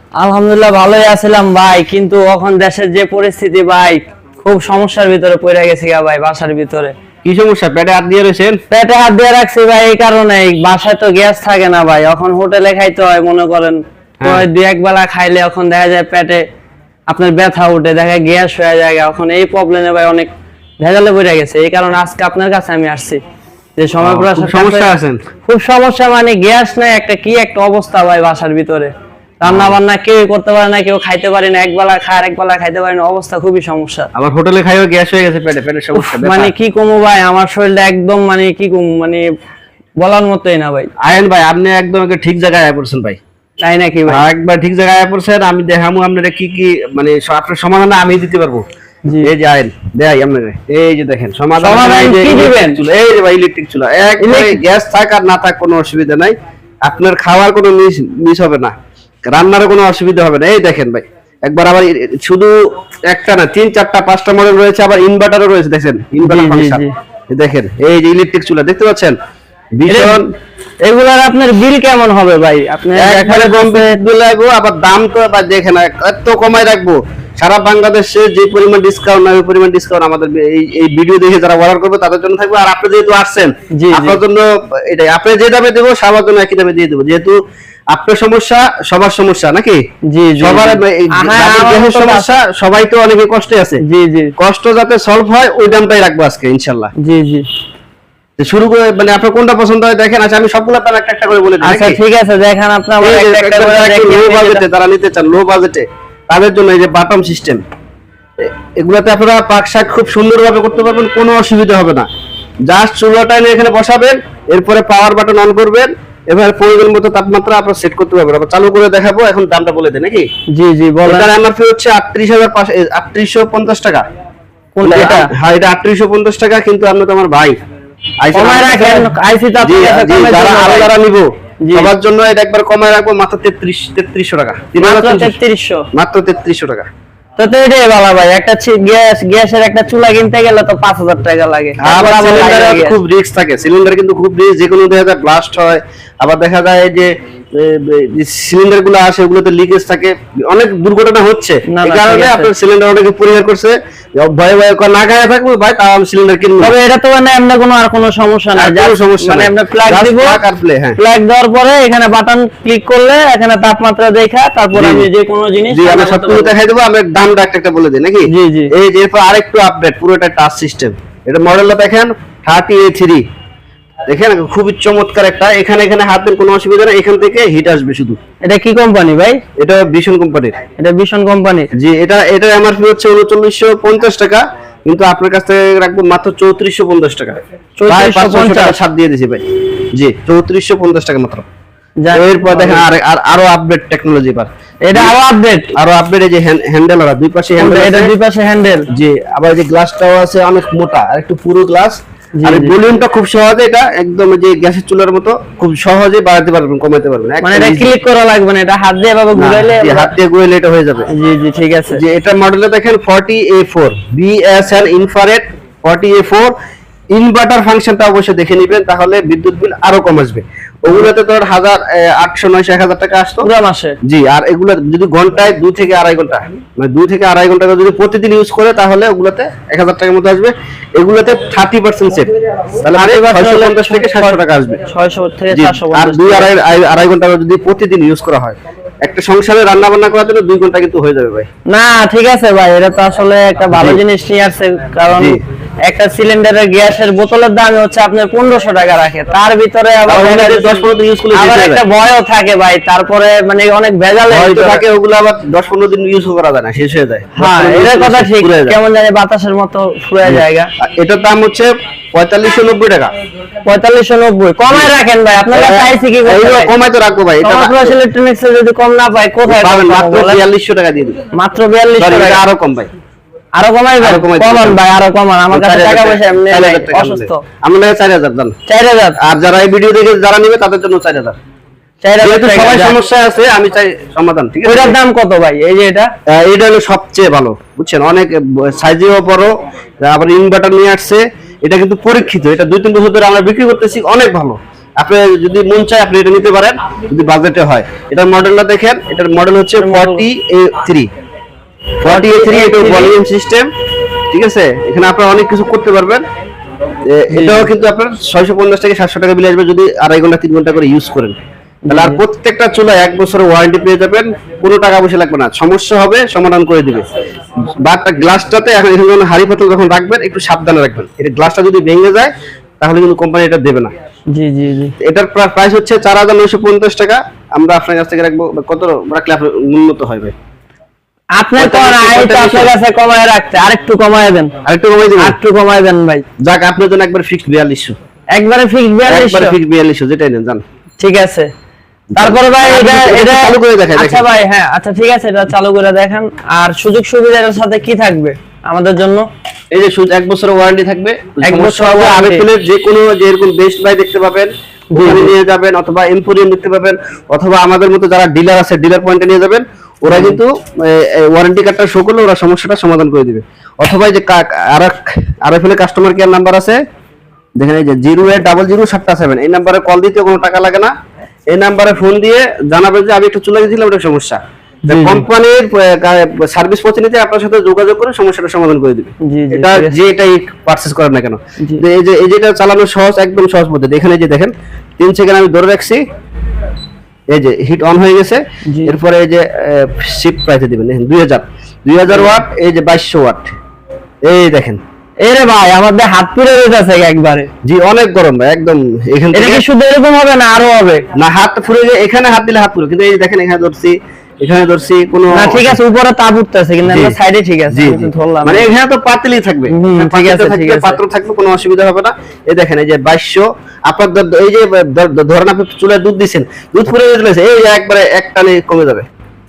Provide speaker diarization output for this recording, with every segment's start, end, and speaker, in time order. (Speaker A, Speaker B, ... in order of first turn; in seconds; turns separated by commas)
Speaker A: 0.2-6.9, Speaker B: 7.2-8.6, Speaker A: 8.7-16.4, Speaker B: 14.2-14.4, Speaker A: 17.1-20.3, Speaker A: 20.8-23.2, Speaker A: 23.8-24.9, Speaker B: 24.0-25.2, Speaker A: 25.4-28.9, Speaker A: 29.4-34.1, Speaker B: 29.4-29.8, Speaker B: 34.1-36.5, Speaker A: 36.0-39.2, Speaker A: 40.0-40.9, Speaker B: 41.0-43.2, Speaker A: 43.6-44.2, Speaker B: 44.1-48.6, Speaker B: 49.2-58.7, Speaker A: 51.6-52.8, Speaker A: 54.2-54.6, Speaker B: 59.3-62.6, Speaker B: 63.1-69.2, Speaker A: 66.2-66.9, Speaker B: 69.8-70.3, Speaker A: 69.9-70.2, Speaker A: 70.9-74.0, Speaker B: 73.0-87.4, Speaker A: 83.7-84.2, Speaker B: 87.9-89.8, Speaker A: 90.1-92.3, Speaker B: 90.4-93.8, Speaker A: 93.8-94.3, Speaker B: 94.4-96.9, Speaker A: 97.0-97.4, Speaker B: 98.4-102.0, Speaker A: 101.6-104.6, Speaker B: 103.0-107.6, Speaker B: 108.4-112.1, Speaker B: 112.7-120.3, Speaker A: 120.5-121.3, Speaker B: 121.0-124.0, Speaker A: 124.8-125.3, Speaker B: 124.8-127.5, Speaker B: 128.2-129.1, Speaker A: 128.3-130.9, Speaker B: 129.6-135.3, Speaker A: 131.6-131.9, Speaker A: 134.8-135.8, Speaker B: 135.9-136.9, Speaker A: 137.4-143.0, Speaker B: 141.8-156.7, Speaker A: 151.7-152.5, Speaker A: 156.6-160.4, Speaker B: 158.6-161.0, Speaker A: 161.0-166.5, Speaker B: 164.8-165.1, Speaker B: 165.7-173.2, Speaker A: 168.3-168.7, Speaker B: 174.1-178.2, Speaker A: 178.4-179.4, Speaker B: 179.6-180.6, Speaker A: 180.8-181.7, Speaker B: 181.7-189.4, Speaker A: 187.8-188.8, Speaker B: 189.9-191.4, Speaker A: 192.0-192.8, Speaker B: 192.1-195.2, Speaker A: 194.9-195.7, Speaker B: 195.8-198.1, Speaker A: 197.6-198.8, Speaker B: 198.9-207.9, Speaker A: 202.4-202.8, Speaker A: 207.4-210.1, Speaker B: 209.3-211.1, Speaker A: 211.1-212.0, Speaker B: 211.9-216.5, Speaker B: 217.1-223.5, Speaker A: 223.4-223.9, Speaker B: 224.0-234.8, Speaker A: 232.9-236.5, Speaker B: 235.5-241.5, Speaker A: 241.7-254.8, Speaker B: 243.7-244.0, Speaker B: 250.1-251.8, Speaker B: 254.3-258.8, Speaker A: 257.4-260.7, Speaker B: 260.3-263.1, Speaker A: 263.6-266.7, Speaker B: 264.6-264.9, Speaker B: 265.5-267.9, Speaker A: 267.4-270.4, Speaker B: 269.4-271.2, Speaker A: 271.3-272.4, Speaker B: 272.0-272.9, Speaker A: 273.6-277.4, Speaker B: 274.0-274.8, Speaker B: 275.5-278.5, Speaker A: 278.7-279.2, Speaker B: 279.2-281.4, Speaker A: 282.0-282.9, Speaker B: 282.2-284.9, Speaker A: 284.6-286.1, Speaker B: 286.3-289.5, Speaker B: 290.0-301.1, Speaker A: 299.8-300.2, Speaker B: 302.0-303.7, Speaker A: 302.1-303.1, Speaker B: 304.3-306.2, Speaker B: 307.1-311.4, Speaker A: 307.3-307.7, Speaker A: 311.9-312.2, Speaker B: 311.9-317.1, Speaker B: 317.8-323.9, Speaker A: 324.3-324.9, Speaker B: 325.0-330.3, Speaker A: 331.4-334.5, Speaker B: 331.6-332.7, Speaker B: 334.6-335.3, Speaker A: 335.2-336.2, Speaker B: 336.4-337.9, Speaker A: 338.3-339.5, Speaker B: 339.1-340.6, Speaker A: 341.0-341.5, Speaker B: 342.1-344.2, Speaker A: 342.2-349.2, Speaker B: 349.7-366.8, Speaker A: 351.4-352.4, Speaker A: 354.9-355.3, Speaker A: 360.1-360.4, Speaker B: 367.6-370.9, Speaker B: 371.5-386.0, Speaker A: 374.9-375.2, Speaker A: 379.2-379.9, Speaker B: 387.3-393.5, Speaker A: 388.7-388.9, Speaker B: 394.2-394.8, Speaker A: 395.2-397.5, Speaker B: 397.6-399.6, Speaker A: 399.3-401.0, Speaker B: 401.1-405.8, Speaker A: 405.3-408.7, Speaker B: 406.9-407.2, Speaker B: 407.7-419.1, Speaker A: 409.7-411.0